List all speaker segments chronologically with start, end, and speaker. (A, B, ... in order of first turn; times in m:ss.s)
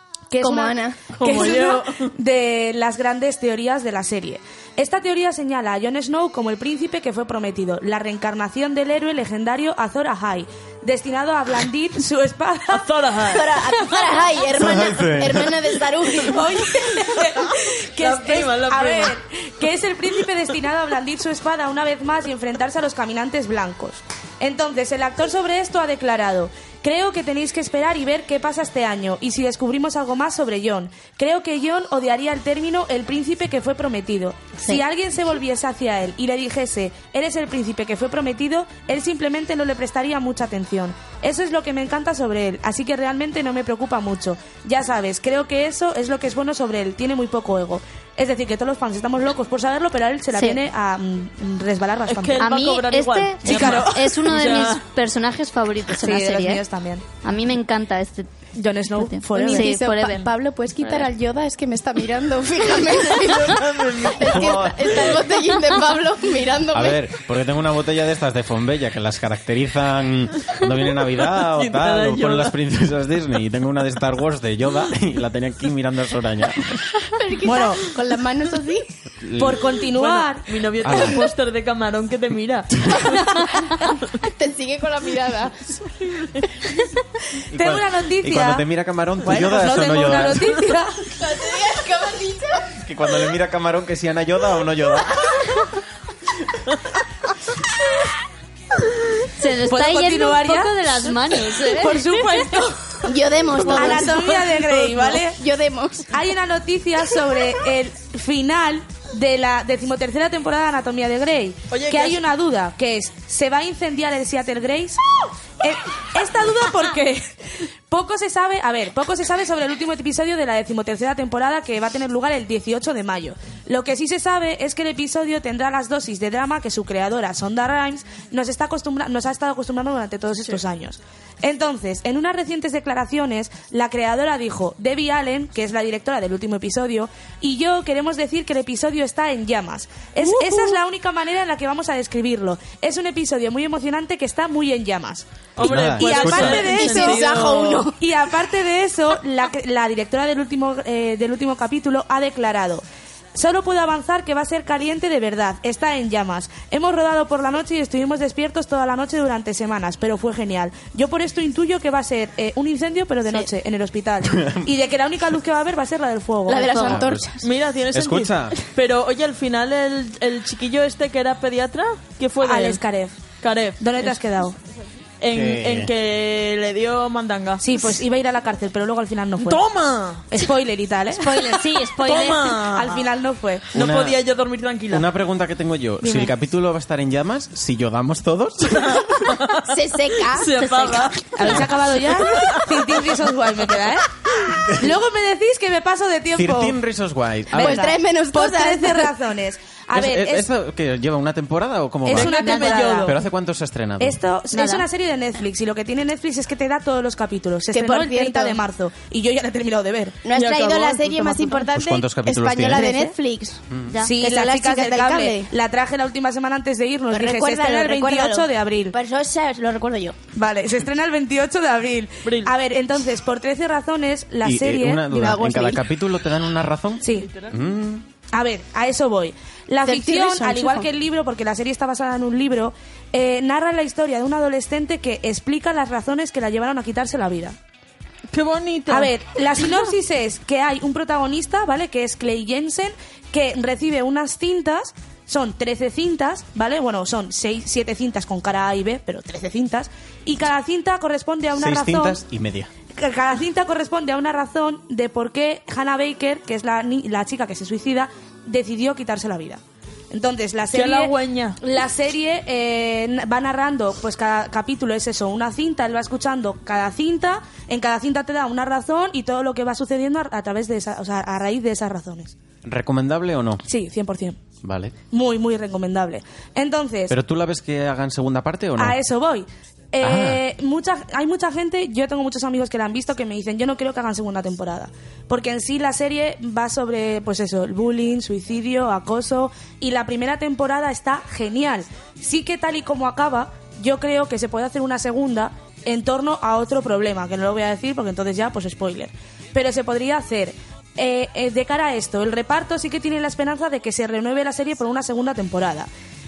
0:00.3-0:12.8 A
0:00.4-0:01.5 B
0:01.1-0:02.1 C
0:12.7-0:13.6 C
0:13.3-0:16.9 B
0:14.5-0:15.6 D
0:16.3-0:52.4 A
0:18.0-0:19.2 C
0:50.3-0:50.6 E
0:52.1-0:54.8 C
0:52.4-0:56.6 E
0:53.4-0:54.1 A
0:56.0-0:57.0 A
0:57.2-0:58.3 E
0:58.5-0:59.7 A
0:59.0-1:00.3 E
0:59.3-1:07.0 B
1:03.1-1:04.6 C
1:03.6-1:05.2 D
1:06.7-1:16.8 D
1:11.5-1:12.5 C
1:17.0-1:18.8 B
1:17.4-1:17.8 A
1:19.2-1:19.7 D
1:19.4-1:20.4 A
1:19.9-1:23.9 C
1:20.8-1:21.3 D
1:24.2-1:25.7 B
1:26.1-1:26.5 C
1:27.5-1:30.6 D
1:27.5-1:28.6 A
1:29.2-1:31.0 A
1:31.2-1:32.7 B
1:32.8-1:35.5 D
1:39.4-1:42.0 E
1:39.7-1:40.7 A
1:41.7-1:42.7 A
1:42.2-1:42.7 C
1:43.0-1:44.4 B
1:43.5-1:45.1 C
1:43.7-1:45.4 A
1:45.2-1:46.1 B
1:46.1-1:55.0 A
1:51.7-1:52.2 C
1:55.6-1:57.3 A
1:57.9-2:25.3 A
2:20.2-2:20.7 B
2:25.6-2:27.9 C
2:25.6-2:26.7 D
2:25.9-2:27.4 A
2:26.3-2:28.0 B
2:28.0-2:32.8 A
2:33.3-2:46.9 A
2:44.2-2:44.7 D
2:46.5-2:47.4 B
2:46.8-2:47.3 D
2:47.4-2:52.8 C
2:47.9-2:48.6 D
2:52.4-2:53.2 A
2:53.4-2:54.2 C
2:53.8-2:54.5 A
2:55.2-2:57.7 C
2:55.3-2:55.9 D
2:57.6-2:59.6 A
2:59.4-3:00.4 C
3:00.3-3:01.6 A
3:01.2-3:02.5 E
3:02.0-3:03.1 C
3:02.7-3:03.7 A
3:03.7-3:05.1 C
3:03.7-3:04.2 D
3:04.9-3:09.3 D
3:06.0-3:06.3 A
3:08.7-3:09.7 C
3:09.6-3:11.1 B
3:10.3-3:13.0 C
3:11.4-3:14.1 A
3:14.6-3:14.9 D
3:14.7-3:16.8 A
3:16.3-3:17.9 D
3:17.5-3:19.1 B
3:17.5-3:20.4 A
3:19.9-3:24.2 D
3:22.1-3:23.2 A
3:22.1-3:23.2 C
3:22.4-3:22.8 E
3:24.0-3:30.2 A
3:24.5-3:24.8 E
3:27.7-3:28.6 B
3:30.2-3:33.6 B
3:30.3-3:31.7 C
3:31.7-3:33.0 D
3:32.7-3:33.1 A
3:34.0-3:38.9 A
3:34.2-3:35.5 B
3:37.1-3:40.2 B
3:40.3-3:45.2 A
3:42.2-3:42.5 C
3:44.4-3:48.0 D
3:45.1-3:45.8 B
3:47.0-3:47.3 A
3:47.2-3:47.5 C
3:48.3-3:57.6 A
3:49.8-3:50.9 B
3:58.3-3:59.1 C
3:58.9-4:12.2 A
4:11.5-4:12.7 D
4:12.9-4:32.3 A
4:20.7-4:21.6 C
4:32.6-4:33.6 D
4:33.6-4:34.4 A
4:34.6-4:34.9 D
4:35.1-4:37.1 A
4:37.1-4:39.0 D
4:38.8-5:05.9 A
4:40.0-4:40.4 D